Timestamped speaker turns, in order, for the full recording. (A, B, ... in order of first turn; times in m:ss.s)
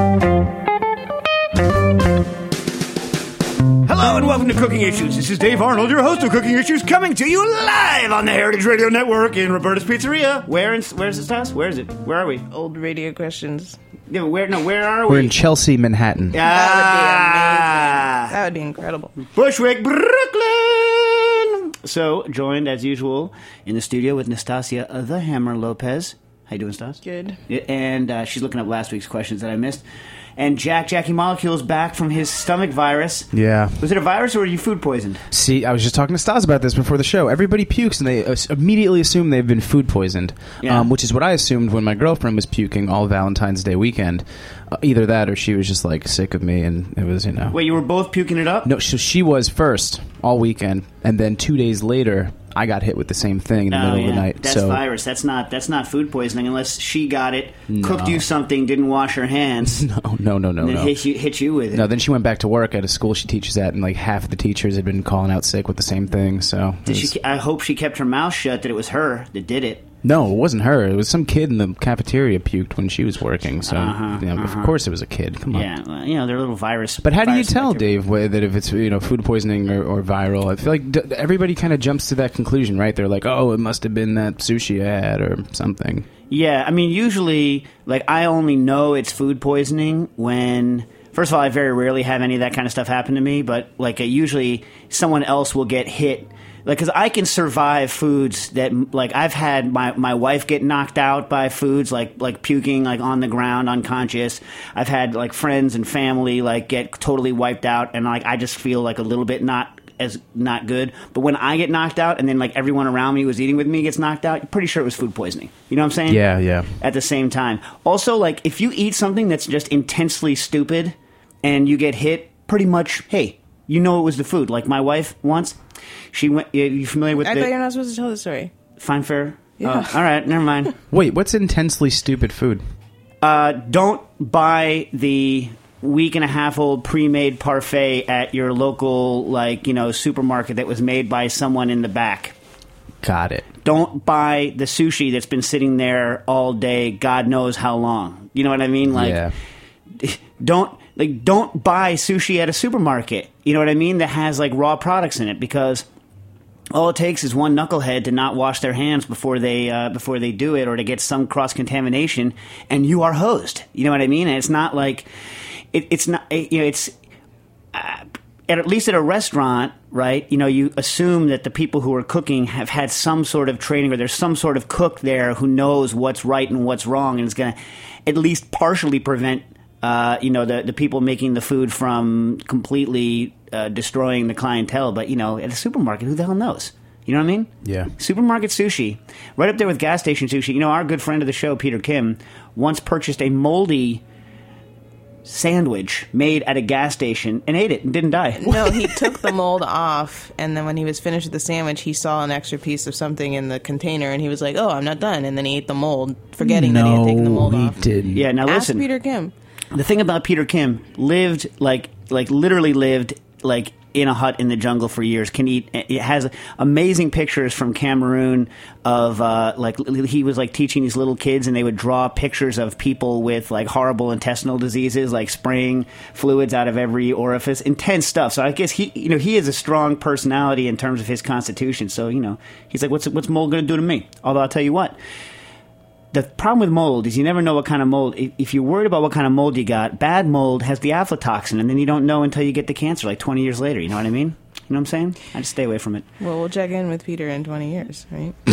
0:03.8-0:12.5 A
0:12.5-0:13.8 B
0:14.1-0:15.3 A
0:15.1-0:16.4 C
0:16.3-0:18.3 A
0:16.4-0:19.1 B
0:19.3-0:29.8 A
0:27.0-0:27.4 B
0:30.4-0:35.2 A
0:33.3-0:33.8 C
0:35.3-0:47.6 C
0:40.6-0:40.9 A
0:47.5-0:48.7 A
0:48.6-0:54.8 C
0:53.7-0:59.9 A
0:57.7-0:58.2 C
0:59.7-1:01.0 C
1:00.6-1:01.9 A
1:01.7-1:07.1 C
1:06.8-1:09.9 A
1:10.0-1:15.7 C
1:13.6-1:14.8 A
1:15.5-1:17.9 A
1:17.0-1:26.1 C
1:26.3-2:05.6 A
1:56.1-1:56.8 C
2:06.1-2:07.5 A
2:07.2-2:08.5 B
2:08.8-2:10.7 A
2:09.6-2:10.0 B
2:10.9-2:12.6 C
2:13.2-2:22.3 A
2:23.0-2:23.4 C
2:23.6-2:29.3 A
2:28.9-2:29.3 C
2:29.9-2:35.9 A
2:36.7-2:45.1 A
2:45.7-2:46.9 A
2:47.7-3:14.0 A
3:07.6-3:07.9 C
3:15.2-3:19.1 A
3:18.4-3:27.8 B
3:26.4-3:28.2 C
3:28.1-3:28.8 A
3:28.3-3:29.3 B
3:29.7-3:55.0 A
3:56.1-4:06.1 A
4:06.2-4:08.4 B